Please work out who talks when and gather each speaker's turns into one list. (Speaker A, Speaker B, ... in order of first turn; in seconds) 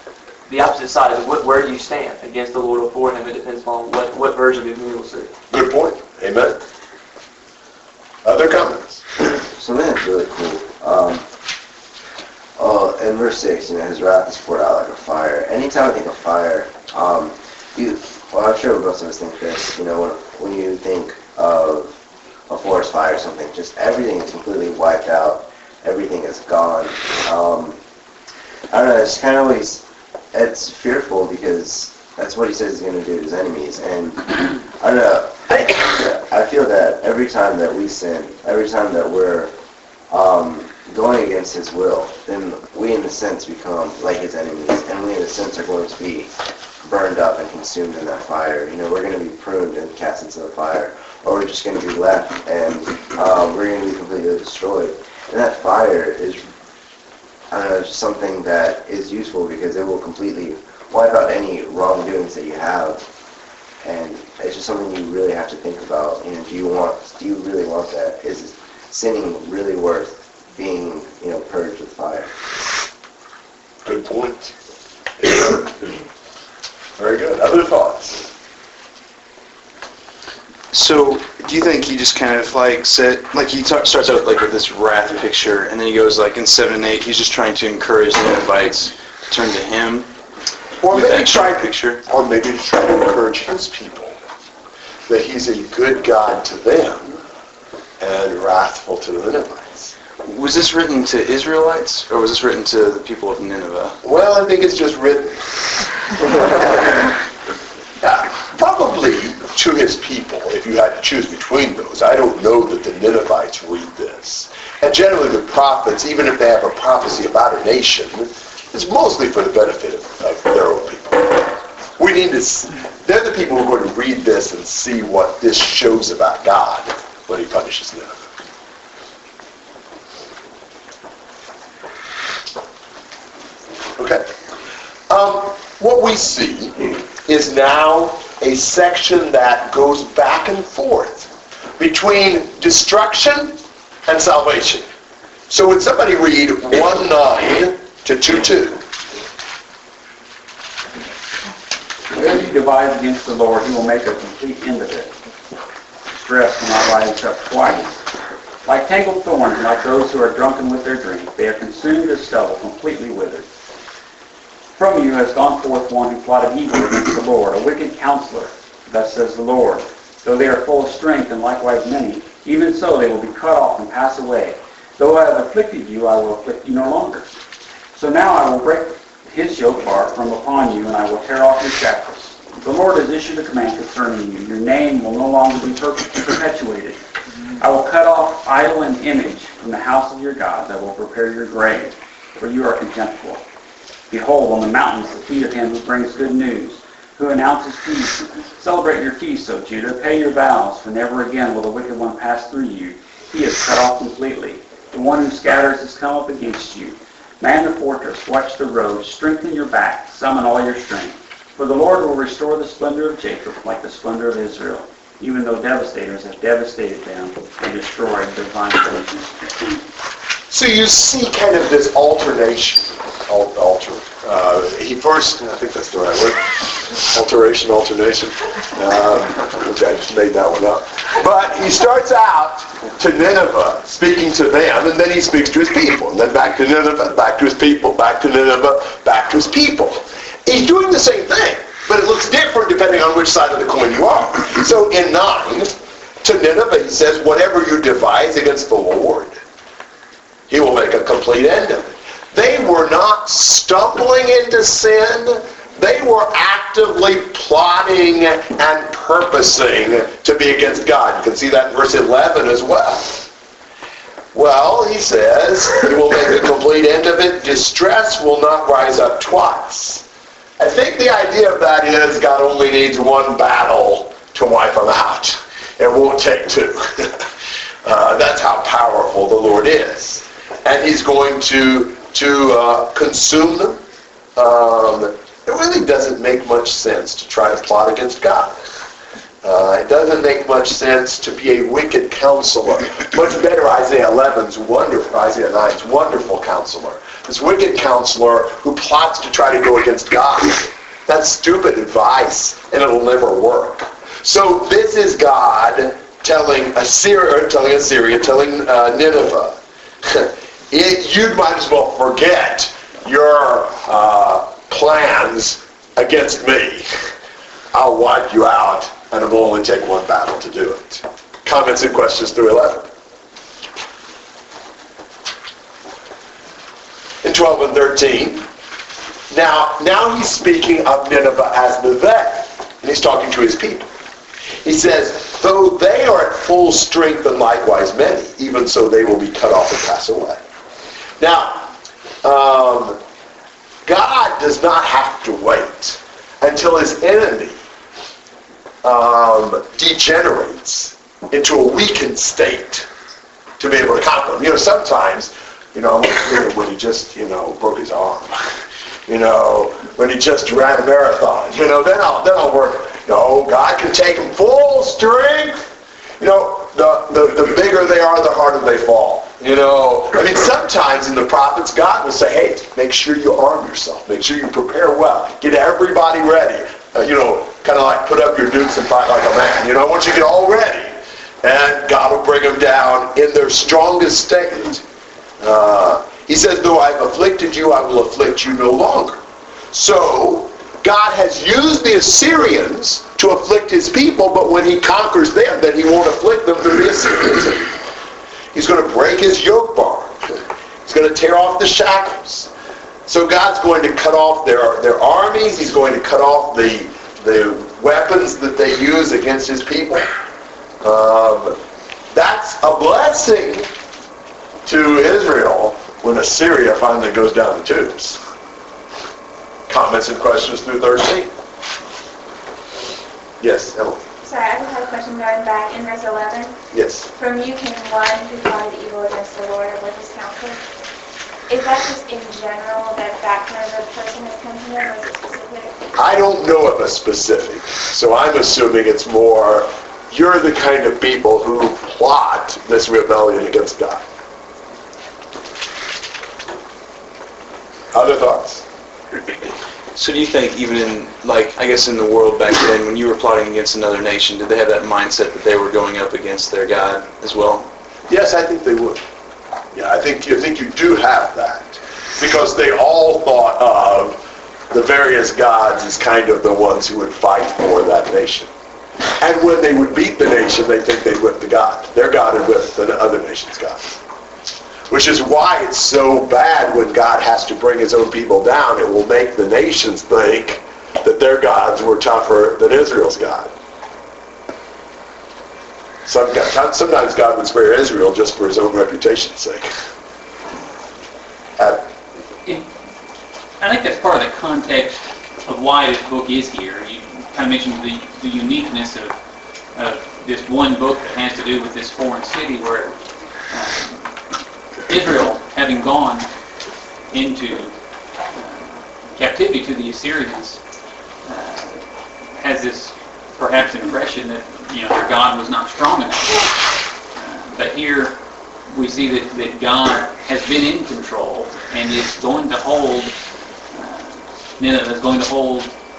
Speaker A: 0.5-5.3
Speaker B: 5.5-6.6, 8.2-9.0, 35.5-36.0, 73.8-74.5, 75.2-75.7, 77.0-78.3, 90.8-94.2, 95.1-97.1, 98.0-99.9, 104.0-105.4, 108.0-128.2, 134.0-134.3, 135.1-144.9, 145.5-148.8, 220.5-249.4, 250.5-263.3, 264.3-270.0, 270.6-277.3, 277.8-283.8, 284.4-288.6, 289.4-316.9, 317.7-322.9, 327.2-328.5, 329.3-333.9, 334.6-340.4, 341.2-343.0, 343.9-347.6, 348.8-352.9, 353.6-358.3, 359.1-365.6, 366.2-384.8, 385.4-389.2, 389.7-397.7, 398.5-400.2, 400.9-402.5, 403.1-410.1, 410.8-411.6, 412.1-413.7, 414.6-418.2, 419.7-421.3, 423.4-424.0, 426.7-427.1, 436.0-444.0, 447.9-448.6, 458.1-459.0, 459.7-468.5, 469.2-473.8, 474.9-483.5, 486.1-489.7, 491.6-491.9
Speaker C: 9.5-11.2, 12.6-21.9, 22.5-27.8, 28.7-39.5, 40.1-56.5, 57.5-63.1, 63.8-72.3
Speaker D: 80.7-90.1, 90.9-92.0, 100.2-104.0, 449.9-457.7
Speaker E: 152.1-155.1, 156.1-158.0, 158.7-163.5, 164.8-177.3, 177.9-187.0, 187.6-193.4, 194.1-219.8
Speaker F: 424.2-426.6, 427.1-430.6, 431.5-435.8
Speaker G: 493.6-499.2, 499.8-502.9, 503.5-504.1, 504.9-506.3, 507.1-507.7, 508.4-510.6, 511.2-511.8, 512.4-516.6, 517.2-518.2, 518.7-523.1, 523.7-525.7